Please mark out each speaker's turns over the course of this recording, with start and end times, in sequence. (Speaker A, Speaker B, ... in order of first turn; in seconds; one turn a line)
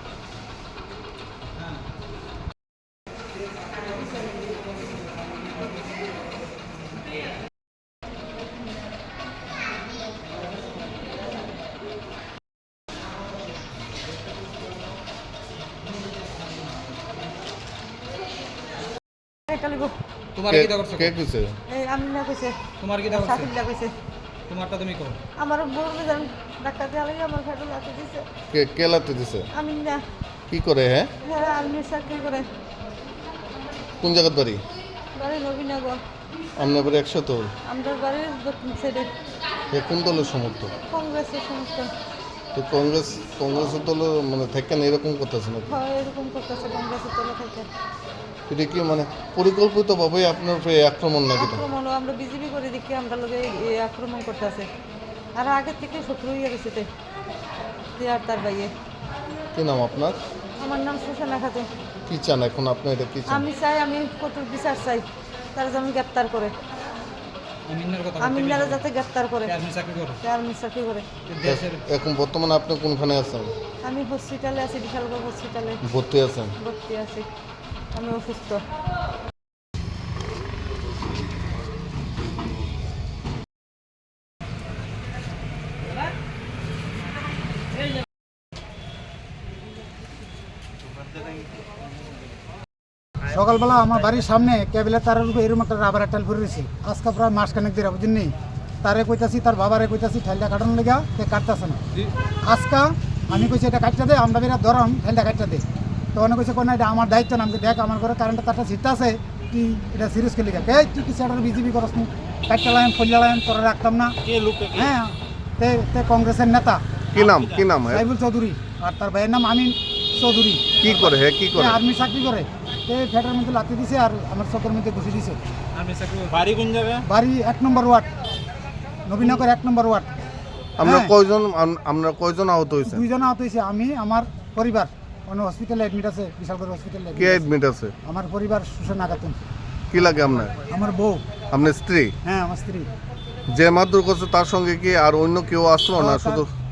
Speaker A: 19.5-19.9
Speaker B: 20.4-21.1
Speaker C: 20.5-21.6
Speaker A: 21.7-23.9
Speaker B: 22.8-23.5
Speaker B: 24.5-25.2
Speaker A: 25.4-28.3
Speaker C: 28.5-29.5
Speaker A: 29.5-30.0
Speaker C: 30.5-31.1
Speaker A: 31.2-32.5
Speaker C: 34.0-34.6
Speaker A: 35.1-36.0
Speaker C: 36.6-37.5
Speaker A: 37.6-39.1
Speaker C: 39.7-40.7
Speaker A: 40.9-41.9
Speaker C: 42.5-45.7
Speaker A: 45.7-47.7
Speaker C: 48.5-51.6
Speaker A: 51.4-54.7
Speaker A: 55.3-56.9
Speaker A: 58.0-58.7
Speaker C: 59.5-60.2
Speaker A: 60.6-61.7
Speaker C: 62.1-63.5
Speaker A: 63.3-66.5
Speaker B: 67.6-68.8
Speaker A: 68.2-69.6
Speaker B: 69.5-70.2
Speaker A: 70.2-71.1
Speaker B: 71.2-71.8
Speaker C: 71.4-73.5
Speaker A: 73.8-75.8
Speaker C: 75.8-76.5
Speaker A: 76.5-77.3
Speaker A: 77.9-78.6
Speaker D: 93.3-101.8
Speaker D: 102.5-114.2
Speaker E: 114.2-114.9
Speaker D: 114.7-116.8
Speaker C: 117.1-118.0
Speaker E: 117.1-117.7
Speaker D: 117.8-125.4
Speaker C: 120.8-121.8
Speaker B: 125.7-126.3
Speaker E: 126.3-127.0
Speaker D: 127.1-128.1
Speaker D: 129.0-130.2
Speaker C: 130.8-133.0
Speaker D: 130.8-131.1
Speaker D: 132.8-137.5
Speaker C: 137.2-137.9
Speaker D: 138.0-139.4
Speaker C: 139.9-140.6
Speaker D: 140.7-141.2
Speaker C: 141.5-142.1
Speaker D: 142.2-142.9
Speaker C: 143.5-146.5
Speaker D: 145.9-146.4